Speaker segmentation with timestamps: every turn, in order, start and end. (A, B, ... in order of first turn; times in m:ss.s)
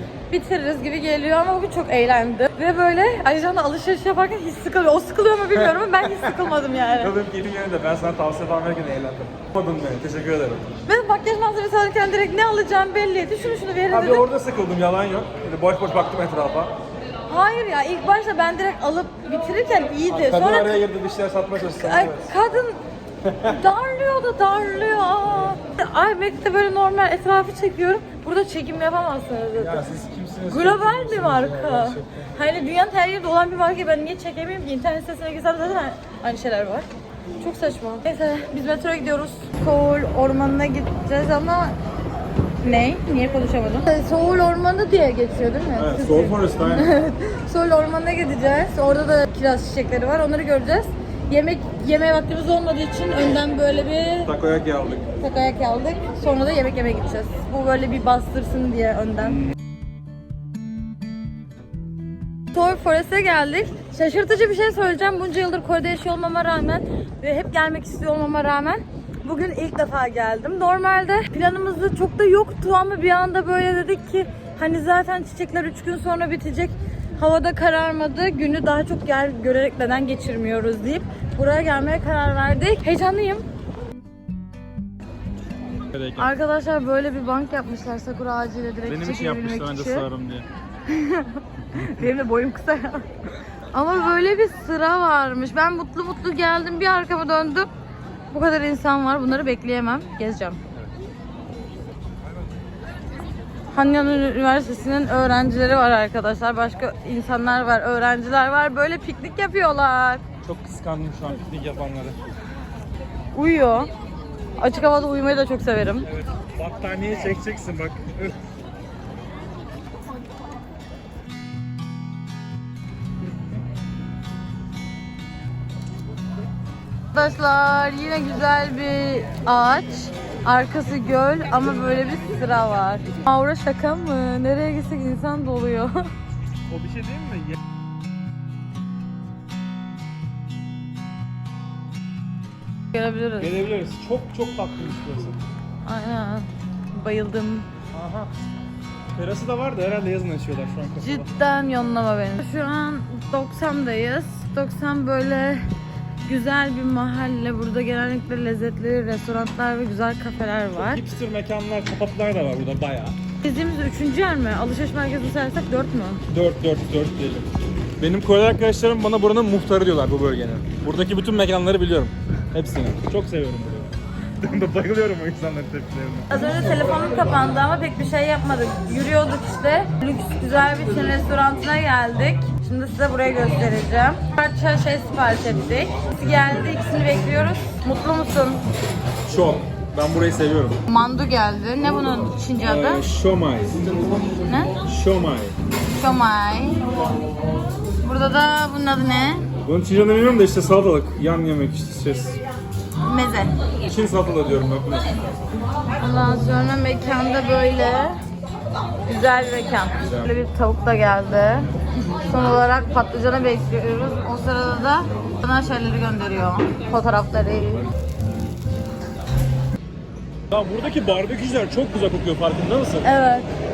0:00.3-0:07.1 A
0:05.6-0:06.5 B
0:07.0-0:10.7 B
0:10.9-0:14.2 A
0:13.9-0:16.7 B
0:17.3-0:20.8 A
0:20.1-0:22.3 B
0:21.8-0:22.8 A
0:23.2-0:23.5 B
0:23.4-0:29.9 A
0:29.6-0:32.3 B
0:30.5-0:36.9 A
0:37.4-0:41.8 A
0:42.6-0:54.3 A
0:45.8-0:47.0 B
0:54.2-0:55.1 B
0:55.2-0:59.4 A
1:02.5-1:23.4 A
1:25.9-1:26.3 B
1:26.2-1:30.1 A
1:28.9-1:30.5 B
1:30.9-1:33.1 A
1:33.7-1:37.7 A
1:38.3-1:40.6 A
1:43.7-1:50.2 A
1:50.4-1:52.2 B
1:53.4-1:53.9 A
1:54.6-1:56.1 A
1:56.1-1:58.4 B
2:07.1-2:16.1 A
2:16.7-2:17.6 B
2:22.9-2:23.5 A
2:23.4-2:25.4 B
2:25.8-2:27.7 A
2:27.9-2:28.3 B
2:29.2-2:31.4 B
2:31.0-2:35.6 A
2:36.2-2:41.0 A
2:40.8-2:43.2 B
2:43.4-2:46.2 A
2:46.3-2:56.3 B
2:56.3-3:08.6 A
3:09.3-3:10.8 B
3:10.9-3:13.0 A
3:12.6-3:14.0 B
3:14.5-3:14.8 A
3:14.8-3:15.6 B
3:16.0-3:16.9 A
3:18.0-3:19.5 A
3:19.6-3:22.4 B
3:23.0-3:23.6 A
3:23.8-3:25.6 B
3:26.0-3:28.2 A
3:29.1-3:31.7 A
3:30.0-3:30.3 B
3:32.2-3:37.9 A
3:40.5-3:43.1 B
3:43.0-3:43.5 A